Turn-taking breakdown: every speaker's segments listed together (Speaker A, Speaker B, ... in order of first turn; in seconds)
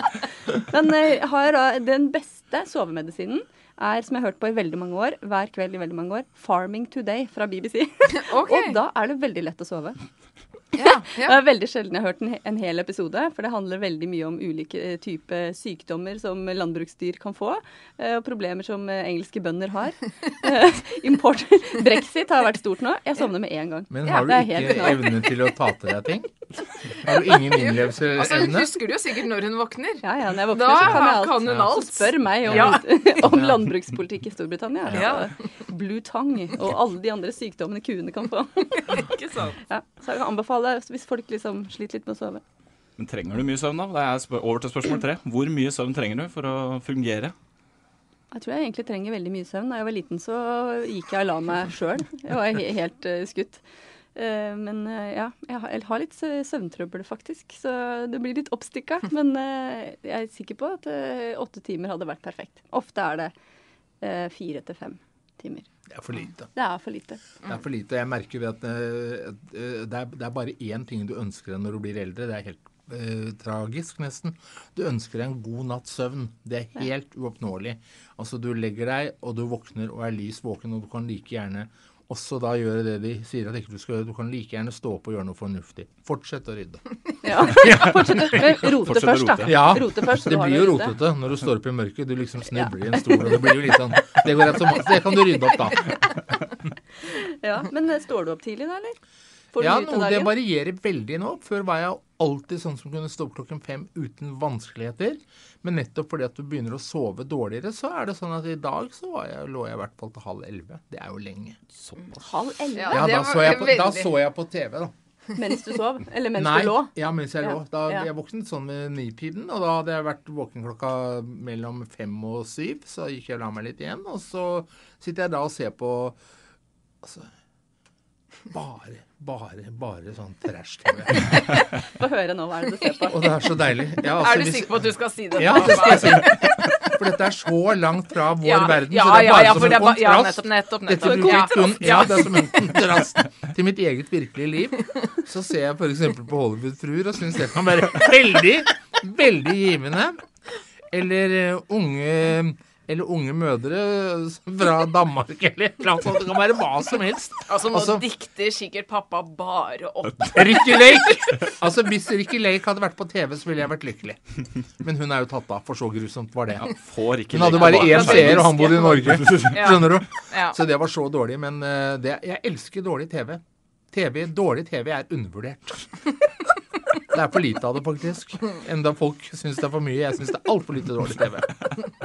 Speaker A: 0.7-10.0, 10.8-25.3, 30.0-39.0, 39.7-42.4, 48.3-53.6, 54.1-63.3, 64.0-65.7, 66.5-67.2, 87.2-90.9, 97.2-99.0, 99.5-100.3, 112.2-113.0, 115.4-118.1, 131.9-133.2, 141.0-141.4
Speaker B: 8.2-8.8, 10.8-11.4, 27.6-32.9, 34.9-35.3, 38.9-39.6, 112.8-114.1, 134.1-136.5, 138.4-142.3, 157.5-160.8, 167.5-170.6
Speaker C: 23.9-28.7, 31.4-31.7, 32.5-32.8, 33.3-33.6, 65.9-66.5, 67.4-86.8, 87.4-88.4, 89.4-95.9, 99.6-111.6, 112.9-114.9, 116.3-126.2, 127.0-127.3, 128.5-131.3, 133.1-150.2, 150.9-158.0, 160.3-164.2, 164.8-166.7, 167.3-175.9, 177.1-181.6
Speaker D: 43.0-47.3, 88.8-89.8, 166.6-169.5